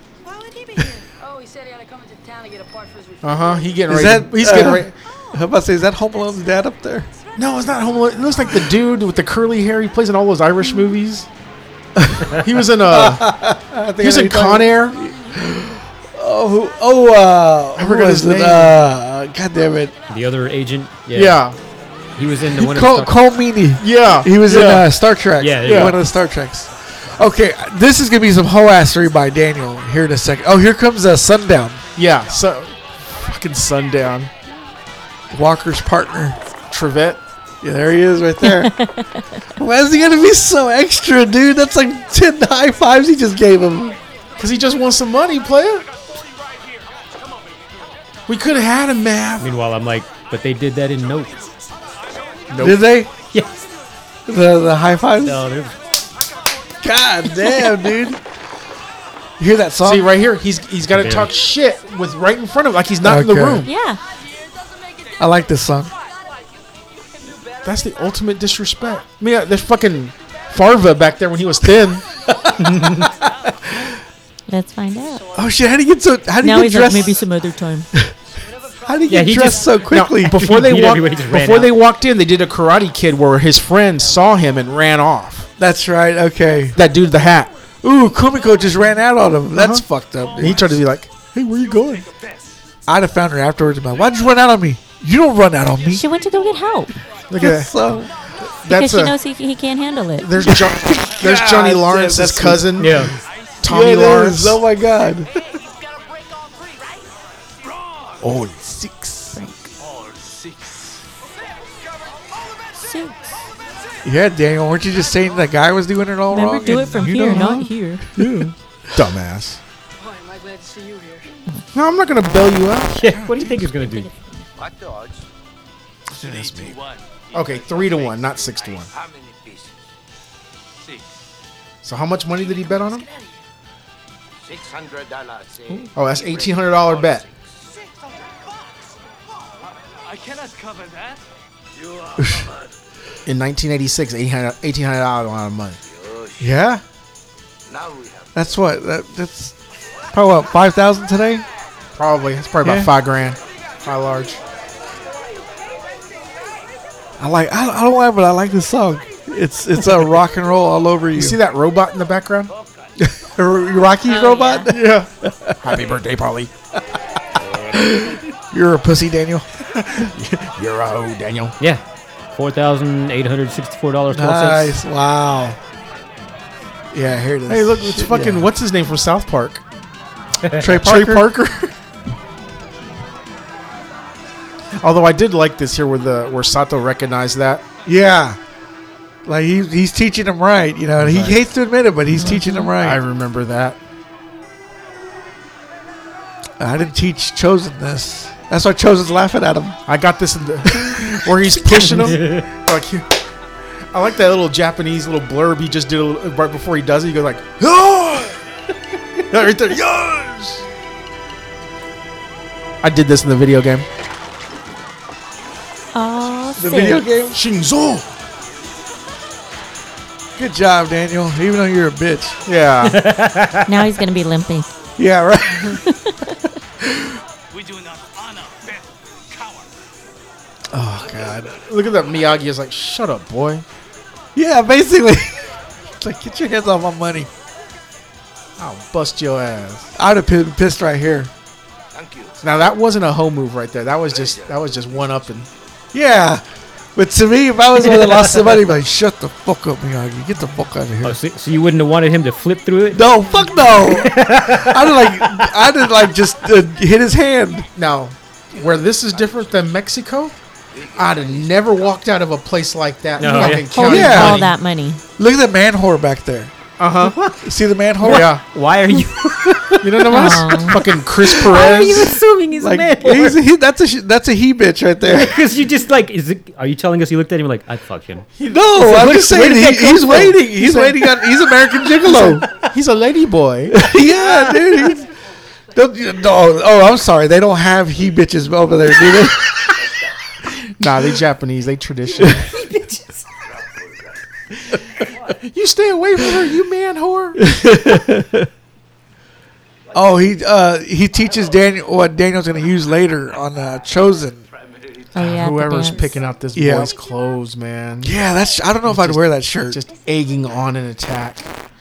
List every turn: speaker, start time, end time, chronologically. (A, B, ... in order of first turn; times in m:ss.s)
0:01.2-0:03.8 A
0:03.2-0:04.9 B
0:03.9-0:07.1 C
0:07.4-0:11.3 B
0:12.0-0:20.0 C
0:12.4-0:13.4 B
0:14.0-0:15.0 B
0:17.8-0:18.8 B
0:20.1-0:21.4 D
0:21.1-0:21.6 B
0:22.2-0:23.2 D
0:22.5-0:31.8 C
0:23.8-0:24.9 B
0:25.4-0:26.0 D
0:25.6-0:26.0 B
0:32.0-0:34.3 B
0:35.3-0:36.4 C
0:36.7-0:37.2 B
0:37.6-0:38.8 C
0:38.4-0:39.4 E
0:39.6-0:44.0 C
0:44.4-0:45.9 B
0:48.3-0:49.5 B
0:49.4-0:51.5 D
0:52.5-0:52.9 B
0:52.6-0:53.1 C
0:54.3-0:55.4 C
0:55.2-0:55.8 D
0:56.8-0:58.2 C
0:59.4-1:00.1 C
0:59.8-1:03.7 B
1:00.9-1:01.4 D
1:03.0-1:03.7 C
1:03.6-1:04.0 E
1:04.3-1:05.2 A
1:05.2-1:05.9 C
1:07.2-1:07.7 A
1:07.6-1:12.0 B
1:12.3-1:13.9 C
1:12.6-1:13.1 D
1:14.5-1:15.3 E
1:15.1-1:15.6 A
1:15.3-1:17.2 C
1:16.4-1:17.9 E
1:18.4-1:19.9 A
1:18.8-1:20.5 C
1:19.1-1:21.8 D
1:19.9-1:25.5 B
1:21.0-1:21.4 A
1:25.6-1:26.8 C
1:26.7-1:27.5 B
1:27.8-1:30.8 C
1:29.5-1:29.9 B
1:30.4-1:32.1 B
1:32.9-1:36.1 C
1:35.9-1:37.0 E
1:37.3-1:39.2 B
1:37.4-1:38.1 C
1:38.6-1:40.3 E
1:40.2-1:44.6 B
1:40.4-1:43.1 C
1:42.8-1:43.2 D
1:43.6-1:45.3 C
1:46.0-1:46.9 A
1:48.2-1:49.4 B
1:49.3-1:49.7 E
1:49.8-1:51.0 F
1:52.8-1:53.2 E
1:54.0-1:58.5 C
1:56.3-1:58.2 E
1:58.2-1:59.6 B
2:00.0-2:01.3 A
2:01.7-2:03.7 B
2:02.9-2:04.1 D
2:04.6-2:05.2 G
2:06.2-2:06.8 C
2:06.2-2:07.1 F
2:07.3-2:08.9 B
2:09.0-2:09.6 G
2:11.8-2:13.1 B
2:14.5-2:15.6 G
2:15.9-2:17.3 B
2:20.0-2:21.2 F
2:22.2-2:22.4 C
2:23.2-2:25.8 B
2:26.4-2:26.8 C
2:27.7-2:28.2 G
2:28.3-2:29.6 C
2:30.1-2:31.5 C
2:32.0-2:34.4 B
2:32.6-2:32.9 C
2:37.2-2:41.4 C
2:41.2-2:42.5 B
2:43.0-2:45.6 C
2:44.0-2:44.7 E
2:44.7-2:45.1 B
2:45.6-2:46.5 B
2:47.7-2:49.5 C
2:49.7-2:51.6 B
2:51.6-2:54.8 D
2:54.1-2:55.6 C
2:56.9-2:58.5 C
2:57.5-2:59.6 B
3:00.5-3:01.3 C
3:00.7-3:01.7 B
3:04.8-3:07.6 B
3:07.9-3:08.4 C
3:09.2-3:13.0 C
3:11.0-3:11.4 B
3:12.2-3:12.7 E
3:12.3-3:13.8 B
3:16.6-3:19.8 C
3:19.9-3:23.1 B
3:20.7-3:21.3 C
3:22.0-3:22.5 D
3:23.9-3:28.4 B
3:29.3-3:30.6 B
3:32.8-3:33.9 B
3:35.9-3:37.1 E
3:36.6-3:37.4 C
3:37.3-3:38.1 B
3:40.4-3:42.4 C
3:42.4-3:43.0 B
3:42.8-3:43.7 D
3:43.7-3:44.7 E
3:45.0-3:45.8 C
3:45.5-3:46.4 E
3:46.8-3:47.2 C
3:47.5-3:49.7 F
3:50.7-3:51.6 C
3:51.6-3:53.6 B
3:54.4-3:57.3 C
3:58.6-3:59.9 B
4:00.0-4:01.3 C
4:02.4-4:05.5 B
4:05.9-4:06.4 C
4:07.0-4:11.2 C
4:07.9-4:08.6 D
4:11.0-4:15.5 D
4:12.9-4:17.7 C
4:17.8-4:20.4 B
4:20.9-4:24.5 B
4:23.2-4:23.7 D
4:23.2-4:25.0 E
4:23.8-4:24.5 C
4:25.2-4:26.5 C
4:26.8-4:27.2 B
4:27.3-4:28.3 C
4:28.0-4:28.4 B
4:28.0-4:29.8 D
4:29.8-4:32.2 B
4:30.1-4:30.8 E
4:31.3-4:33.4 D
4:32.6-4:35.4 C
4:35.0-4:40.4 D
4:38.4-4:41.0 B
4:38.4-4:42.5 C
4:42.1-4:42.6 D
4:42.6-4:43.8 B
4:43.7-4:45.1 C
4:45.7-4:49.6 C
4:50.6-4:52.5 B
4:52.6-4:53.0 D
4:55.4-4:57.4 B
4:57.4-4:58.5 C
4:59.9-5:04.5 C
5:05.1-5:06.1 E
5:05.1-5:08.2 B
5:06.6-5:06.9 C
5:08.0-5:09.8 C
5:08.8-5:11.5 B